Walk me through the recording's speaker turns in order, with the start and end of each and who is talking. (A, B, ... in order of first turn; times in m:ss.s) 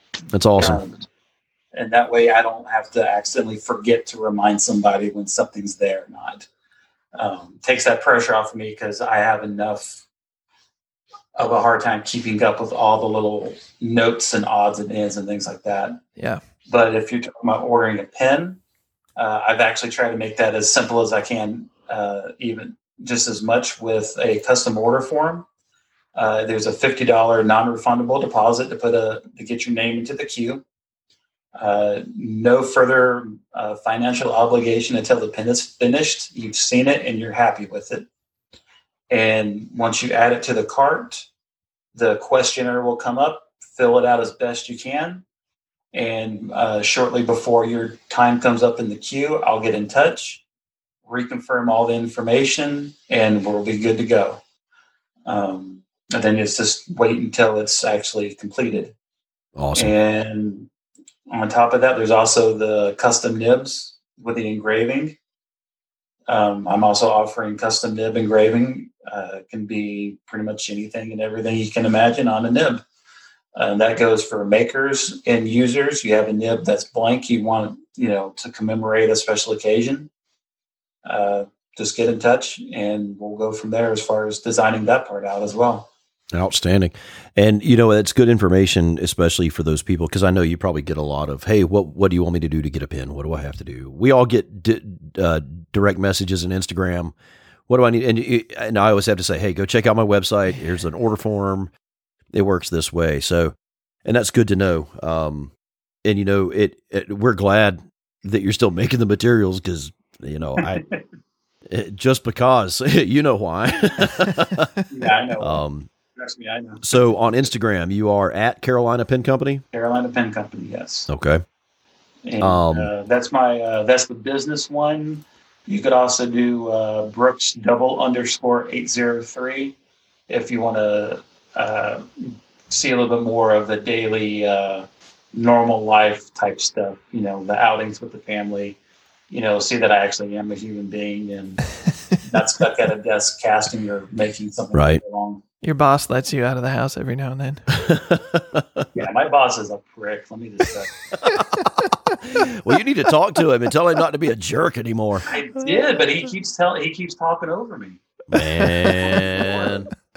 0:00.3-0:00.8 A
0:00.6-0:01.0 B
0:01.7-0:06.5 B
0:07.2-0:10.0 B
0:11.4-0:16.0 B
0:16.2-0:16.4 C
0:16.7-0:18.6 B
0:19.2-0:25.5 B
0:26.2-0:30.6 B
0:31.6-0:38.1 B
0:39.1-0:41.3 B
0:41.9-0:45.2 B
0:45.9-0:50.4 B
0:51.0-0:54.4 B
0:55.3-0:59.0 B
0:59.6-0:59.9 A
0:59.8-1:00.7 B
1:01.3-1:05.2 B
1:06.3-1:12.8 B
1:13.6-1:20.1 B
1:21.0-1:25.9 B
1:26.3-1:37.1 A
1:37.7-1:41.7 A
1:42.3-1:43.5 A
1:44.1-1:45.5 A
1:46.0-1:50.8 A
1:50.6-1:51.0 B
1:51.7-1:54.7 A
1:54.9-1:55.6 B
1:55.4-1:55.9 A
1:56.1-1:56.8 B
1:56.8-1:59.6 A
1:59.7-2:01.1 B
2:01.1-2:01.4 A
2:02.2-2:09.8 B
2:02.4-2:02.9 A
2:10.3-2:18.8 B
2:19.3-2:25.4 B
2:24.7-2:25.0 A
2:25.6-2:27.7 C
2:27.7-2:28.9 A
2:28.9-2:30.9 B
2:31.2-2:31.6 A
2:32.2-2:35.3 A
2:35.3-2:38.0 B
2:38.3-2:39.9 A
2:38.8-2:39.1 C
2:39.0-2:39.9 B